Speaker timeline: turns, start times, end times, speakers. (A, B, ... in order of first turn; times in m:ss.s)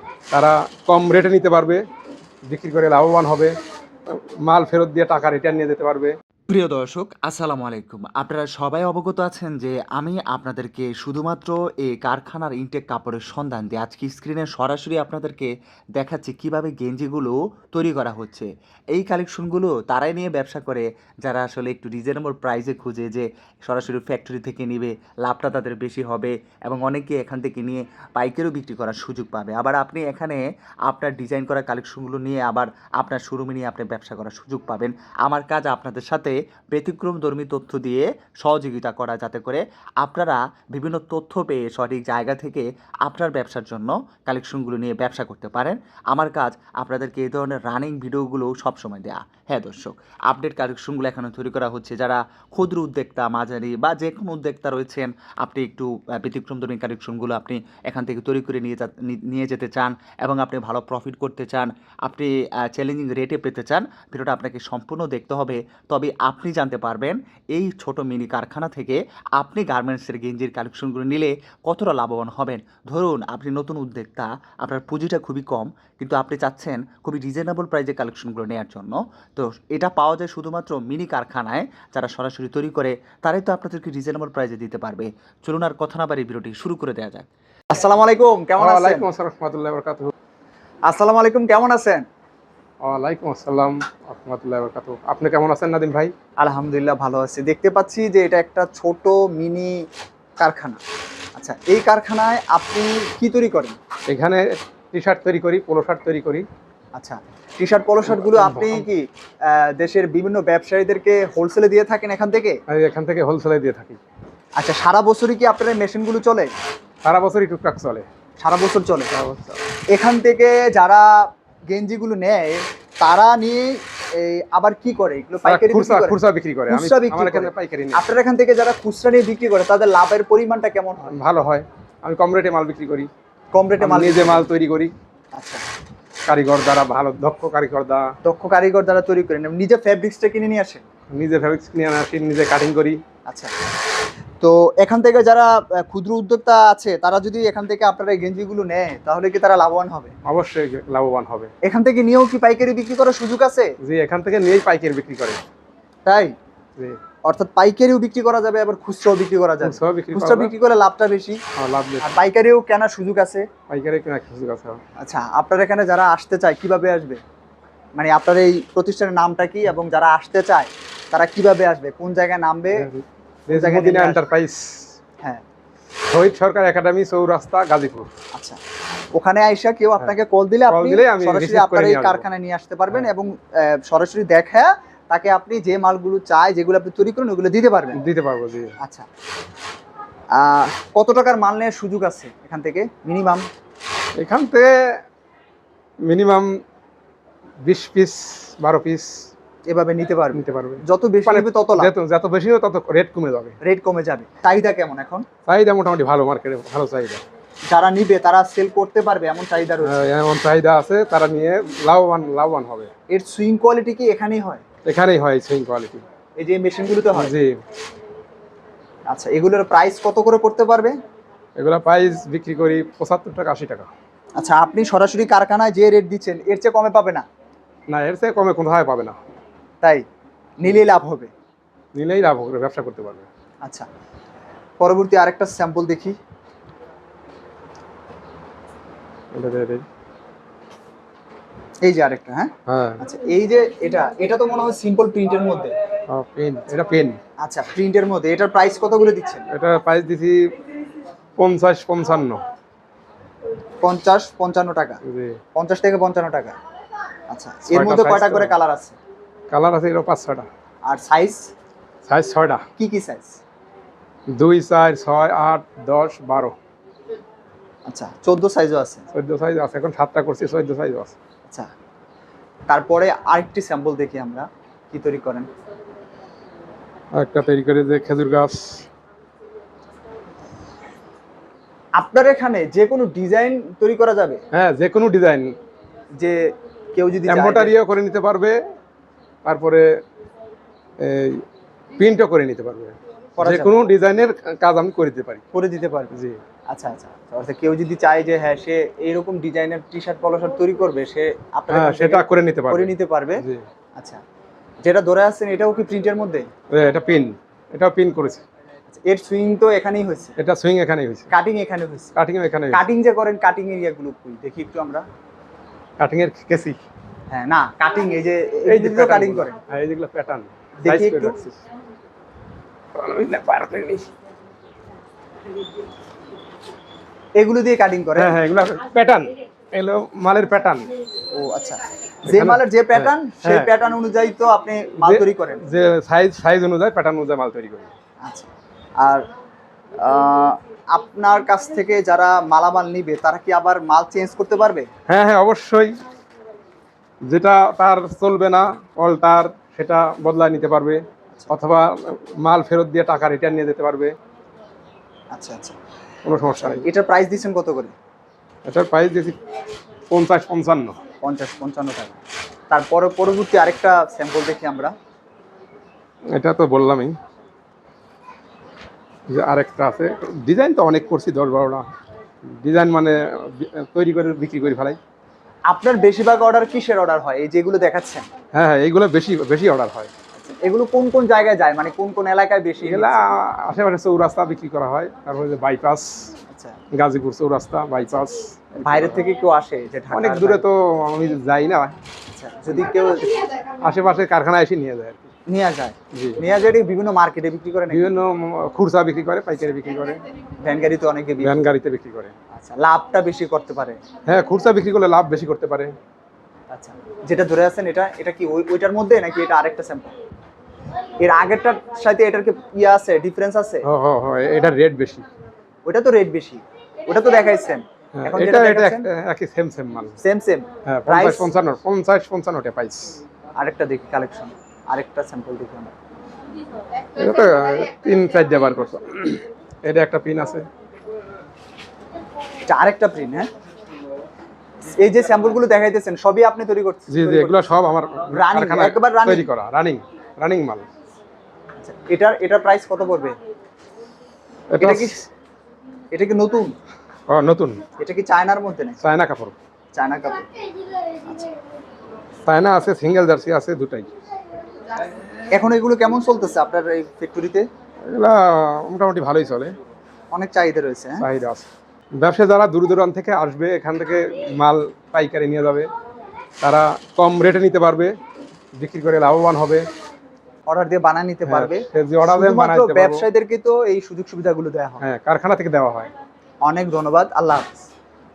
0:00.3-0:01.8 A
0:02.5-0:03.5 A
0:04.1-0:06.1 A
0:06.5-1:27.3 B
1:27.7-1:29.0 C
1:28.6-1:30.1 A
1:30.9-1:32.0 C
1:32.8-1:36.1 A
1:36.4-1:39.8 C
1:40.4-1:40.8 C
1:41.4-1:43.8 C
1:44.1-1:46.4 A
1:47.0-1:48.8 C
1:48.0-1:48.8 A
1:49.5-1:52.6 C
1:52.7-1:54.0 A
1:54.6-1:56.5 C
1:57.0-1:58.1 A
1:58.4-1:59.1 C
1:59.1-1:59.6 A
1:59.9-2:06.2 C
2:05.4-2:08.0 A
2:06.7-2:11.1 C
2:11.1-2:13.1 A
2:13.5-2:14.5 C
2:13.8-2:14.9 A
2:15.3-2:15.6 C
2:16.3-2:18.1 A
2:18.2-2:20.8 C
2:21.1-2:23.0 A
2:24.4-2:30.1 C
2:30.2-2:31.5 A
2:31.6-2:33.7 C
2:33.8-2:35.4 A
2:36.0-2:36.3 C
2:37.2-2:41.4 C
2:39.6-2:40.5 A
2:41.6-2:42.1 A
2:42.0-2:43.4 C
2:43.7-2:44.8 A
2:45.0-2:47.2 C
2:48.0-2:52.9 C
2:52.8-2:54.9 A
2:53.5-2:54.2 C
2:56.1-2:58.1 A
2:59.2-3:08.0 C
3:00.7-3:02.2 A
3:08.0-3:08.7 A
3:08.8-3:09.0 C
3:10.4-3:13.4 C
3:14.2-3:14.7 A
3:16.0-3:16.5 A
3:17.6-3:19.3 A
3:19.7-3:21.9 C
3:20.3-3:23.6 A
3:23.6-3:25.2 C
3:25.5-3:27.2 A
3:27.7-3:30.0 C
3:29.8-3:32.9 A
3:33.1-3:34.6 C
3:34.8-3:36.0 A
3:36.4-3:37.3 C
3:37.1-3:37.6 A
3:39.1-3:40.9 C
3:41.6-3:43.9 A
3:44.4-3:47.2 C
3:47.9-3:49.2 A
3:50.6-3:51.3 C
3:51.9-3:53.3 A
3:54.8-3:56.2 C
3:59.3-3:59.8 A
4:01.8-4:05.7 C
4:02.7-4:03.0 A
4:06.1-4:07.2 A
4:07.4-4:09.4 C
4:09.5-4:10.4 A
4:11.4-4:12.4 A
4:13.8-4:15.0 C
4:15.0-4:15.4 A
4:15.5-4:16.5 C
4:17.3-4:19.0 C
4:17.7-4:18.5 A
4:19.5-4:20.5 A
4:20.8-4:21.5 C
4:22.0-4:22.6 A
4:22.8-4:23.4 C
4:24.4-4:26.6 A
4:27.9-4:29.0 C
4:29.1-4:31.1 A
4:32.7-4:35.5 C
4:37.2-4:38.8 A
4:42.0-4:44.4 C
4:44.5-4:45.5 A
4:46.2-4:47.7 C
4:47.3-4:48.6 A
4:49.4-4:49.9 A
4:51.0-4:51.4 A
4:52.0-4:55.4 A
4:53.4-4:53.8 C
4:55.5-4:56.1 C
4:56.1-4:56.4 A
4:56.7-5:03.4 C
5:01.7-5:03.6 A
5:04.8-5:06.5 C
5:06.7-5:08.4 A
5:08.9-5:10.3 C
5:10.4-5:11.3 A
5:11.3-5:12.1 C
5:12.2-5:12.8 A
5:12.7-5:15.0 C
5:16.0-5:16.8 A
5:17.3-5:19.5 C
5:18.7-5:21.6 A
5:20.8-5:21.4 C
5:23.0-5:24.1 A
5:27.4-5:28.4 C
5:28.1-5:30.9 A
5:31.3-5:35.6 C
5:32.3-5:33.7 A
5:35.0-5:37.9 A
5:38.2-5:38.5 C
5:40.0-5:44.9 C
5:45.1-5:46.0 A
5:47.3-5:54.1 A
5:55.3-5:55.8 C
5:56.2-5:56.8 A
5:56.6-5:57.9 C
5:58.7-5:59.4 A
6:00.1-6:01.0 A
6:01.2-6:02.2 C
6:02.7-6:04.9 C
6:06.3-6:07.1 A
6:09.3-6:11.8 A
6:12.5-6:15.0 A
6:15.7-6:18.2 C
6:18.5-6:20.1 A
6:20.4-6:23.3 C
6:22.8-6:26.3 A
6:26.5-6:26.8 C
6:26.9-6:29.2 A
6:28.8-6:30.6 C
6:30.1-6:31.9 A
6:32.4-6:33.2 C
6:33.8-6:35.3 A
6:35.5-6:38.1 C
6:36.1-6:36.4 A
6:37.9-6:40.2 A
6:40.6-6:41.6 C
6:41.4-6:42.3 A
6:42.5-6:44.0 C
6:44.3-6:45.9 A
6:46.7-6:50.1 C
6:51.2-6:53.8 C
6:53.8-6:55.2 A
6:55.9-6:59.1 C
6:58.1-7:00.2 A
7:00.2-7:01.5 C
7:00.8-7:03.2 A
7:03.6-7:05.9 C
7:07.2-7:10.6 A
7:12.7-7:13.5 C
7:14.9-7:17.7 C
7:17.1-7:20.9 A
7:18.3-7:19.5 C
7:21.8-7:23.4 C
7:24.7-7:25.2 A
7:24.8-7:25.2 C
7:26.1-7:26.7 C
7:27.3-7:27.8 A
7:28.0-7:29.0 C
7:29.0-7:29.6 A
7:29.9-7:30.4 C
7:32.4-7:34.1 A
7:35.5-7:37.6 C
7:38.1-7:39.7 A
7:40.3-7:41.2 C
7:41.2-7:41.7 A
7:42.2-7:45.9 A
7:46.6-7:48.1 A
7:48.8-7:49.8 A
7:50.7-7:55.0 C
7:51.4-7:53.2 A
7:55.0-7:56.1 A
7:56.6-7:57.8 C